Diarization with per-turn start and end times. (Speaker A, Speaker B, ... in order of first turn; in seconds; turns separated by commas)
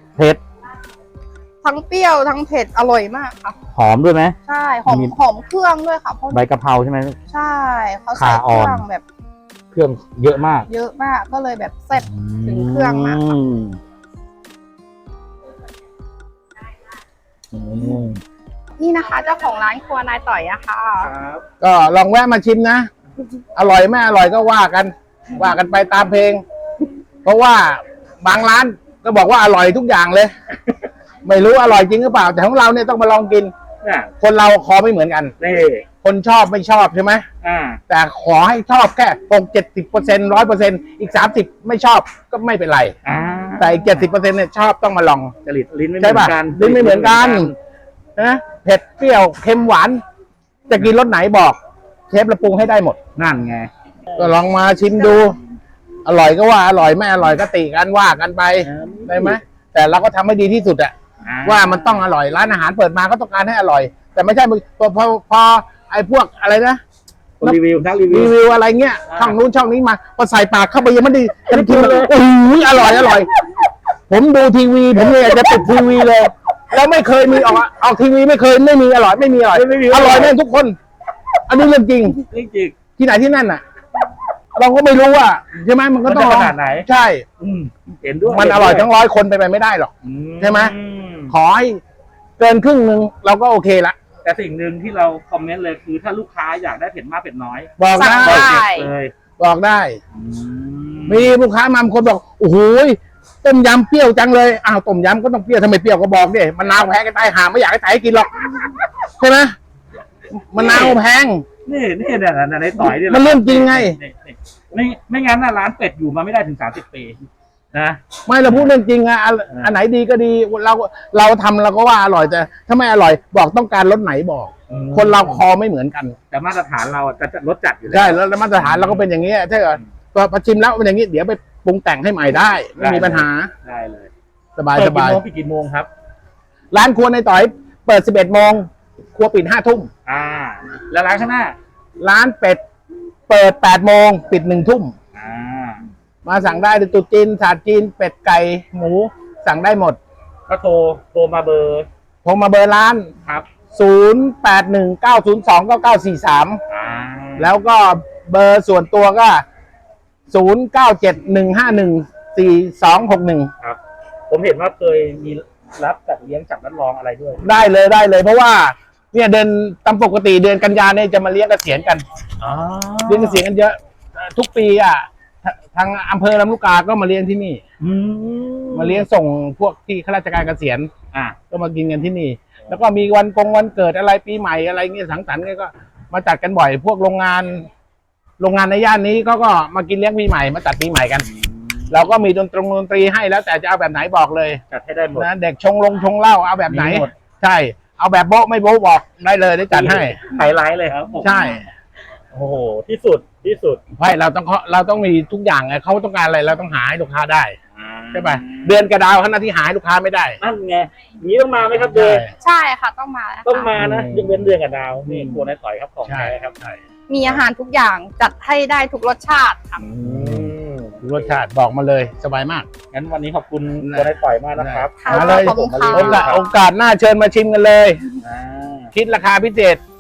Speaker A: 1.6-3.6, Speaker B: 3.7-5.2, Speaker A: 4.4-6.4, Speaker B: 6.3-7.2, Speaker A: 7.3-9.0, Speaker B: 8.2-8.8, Speaker B: 9.7-10.7, Speaker A: 10.7-13.2, Speaker B: 12.0-13.8, Speaker B: 17.5-18.2, Speaker A: 18.8-21.1, Speaker B: 21.0-21.4, Speaker C: 21.6-22.9, Speaker C: 23.6-26.4, Speaker C: 27.2-30.3, Speaker C: 31.2-33.5, Speaker B: 33.8-34.1, Speaker C: 34.2-35.3, Speaker B: 35.4-35.9, Speaker C: 36.0-37.3, Speaker B: 37.4-37.8, Speaker C: 37.9-43.0, Speaker B: 43.0-44.1, Speaker C: 43.6-45.3, Speaker B: 45.4-47.6, Speaker C: 46.0-47.5, Speaker C: 48.2-50.0, Speaker C: 50.7-51.6, Speaker C: 52.1-53.0, Speaker B: 53.2-54.4, Speaker C: 54.2-55.4, Speaker C: 56.0-60.9, Speaker B: 58.6-59.4, Speaker B: 61.2-62.1, Speaker C: 61.4-66.8, Speaker B: 67.4-68.4, Speaker C: 68.1-73.3, Speaker B: 69.1-69.4, Speaker B: 71.5-72.2, Speaker B: 72.7-73.2, Speaker C: 74.1-80.8, Speaker B: 75.0-76.1, Speaker B: 79.5-80.4, Speaker C: 81.5-82.2, Speaker B: 82.3-82.8, Speaker C: 83.0-83.6, Speaker C: 84.5-87.3, Speaker B: 86.0-86.9, Speaker B: 87.4-88.9, Speaker C: 88.3-90.8, Speaker B: 90.0-91.3, Speaker C: 91.3-91.8, Speaker C: 92.4-94.0, Speaker B: 94.2-99.1, Speaker C: 97.8-98.6, Speaker A: 97.9-98.9, Speaker C: 99.4-100.0, Speaker B: 100.1-101.4, Speaker C: 101.1-109.5, Speaker C: 110.5-111.5, Speaker B: 110.6-111.0, Speaker B: 111.7-117.2, Speaker C: 112.8-114.0, Speaker B: 117.7-118.7, Speaker C: 118.3-126.2, Speaker B: 124.7-125.4, Speaker B: 126.3-129.1, Speaker C: 127.9-133.5, Speaker B: 132.8-134.1, Speaker C: 134.6-135.2, Speaker B: 134.7-135.9, Speaker C: 136.7-139.9, Speaker B: 140.1-141.6, Speaker C: 142.0-142.6, Speaker C: 143.3-144.9, Speaker B: 145.1-145.8, Speaker C: 146.2-150.0, Speaker B: 150.5-151.9, Speaker C: 152.2-153.1, Speaker B: 153.2-153.5, Speaker C: 153.7-156.6, Speaker B: 156.7-157.5, Speaker C: 157.4-159.4, Speaker C: 160.3-163.5, Speaker B: 163.6-167.5, Speaker C: 167.4-172.1, Speaker B: 172.4-173.4, Speaker C: 173.1-177.6, Speaker B: 177.8-179.1, Speaker C: 178.7-180.9, Speaker C: 181.5-187.7, Speaker C: 188.4-191.3, Speaker B: 191.2-192.1, Speaker C: 191.9-194.6, Speaker B: 194.7-195.3, Speaker C: 195.2-200.2, Speaker B: 196.7-197.1, Speaker B: 199.7-201.5, Speaker C: 201.2-201.7, Speaker B: 202.3-203.8, Speaker C: 204.0-207.6, Speaker B: 207.7-208.9, Speaker C: 208.1-210.4, Speaker B: 210.4-212.2, Speaker C: 211.7-212.3, Speaker A: 212.4-213.8, Speaker B: 213.4-217.4, Speaker C: 213.8-214.4, Speaker C: 215.1-215.4, Speaker C: 216.1-216.4, Speaker A: 217.1-219.8, Speaker B: 219.8-221.4, Speaker C: 220.1-220.5, Speaker C: 221.0-222.7, Speaker B: 222.9-226.4, Speaker C: 223.8-228.1, Speaker A: 225.0-226.4, Speaker B: 228.2-228.9, Speaker C: 228.9-229.8